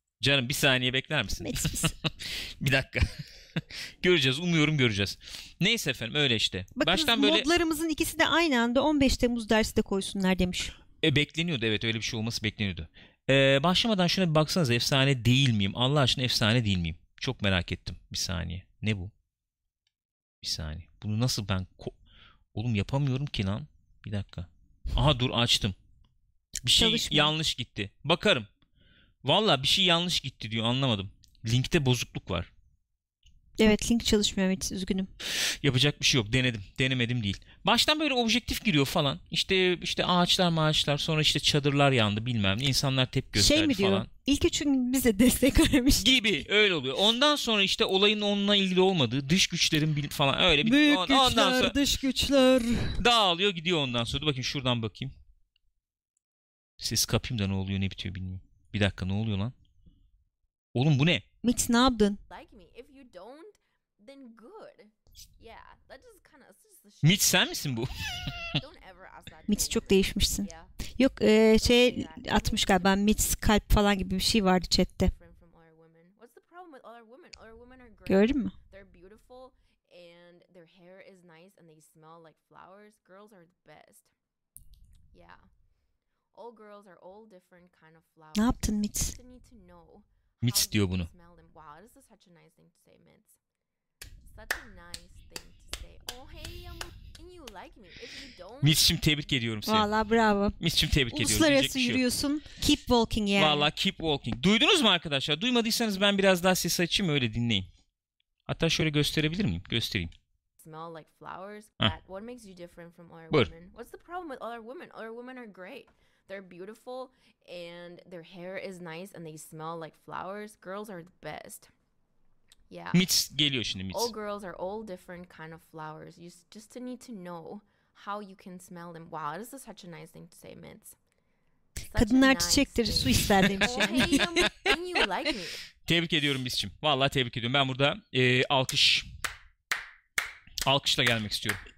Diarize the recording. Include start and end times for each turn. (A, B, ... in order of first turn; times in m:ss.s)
0:00.2-0:07.5 A
0:01.4-0:01.9 B
0:06.8-0:10.7 B
0:11.0-0:19.1 A
0:20.4-0:22.0 A
0:22.5-0:25.8 A
0:26.6-0:28.5 A
0:26.7-0:27.3 B
0:29.2-0:32.5 A
0:33.6-0:35.1 B
0:35.4-0:44.1 A
0:43.4-0:46.1 B
0:46.0-0:51.8 A
0:50.6-0:53.0 B
0:53.0-0:55.1 A
0:56.8-0:59.5 A
1:00.7-1:01.2 A
1:01.4-1:02.2 B
1:02.3-1:10.8 C
1:07.0-1:08.6 A
1:09.5-1:15.1 B
1:11.6-1:13.2 C
1:15.1-1:24.1 C
1:18.1-1:18.5 B
1:25.1-1:25.5 C
1:26.3-1:33.4 C
1:28.4-1:29.2 B
1:30.4-1:31.1 A
1:34.3-1:39.0 C
1:38.6-1:39.9 A
1:39.7-1:40.6 B
1:40.6-1:42.0 A
1:41.1-1:43.7 B
1:43.3-1:47.7 A
1:48.5-1:50.1 A
1:50.6-2:01.7 C
2:02.7-2:03.1 C
2:02.9-2:04.1 A
2:03.9-2:11.0 C
2:11.9-2:15.6 C
2:12.0-2:14.7 B
2:13.5-2:14.8 A
2:15.9-2:19.1 A
2:20.6-2:21.6 A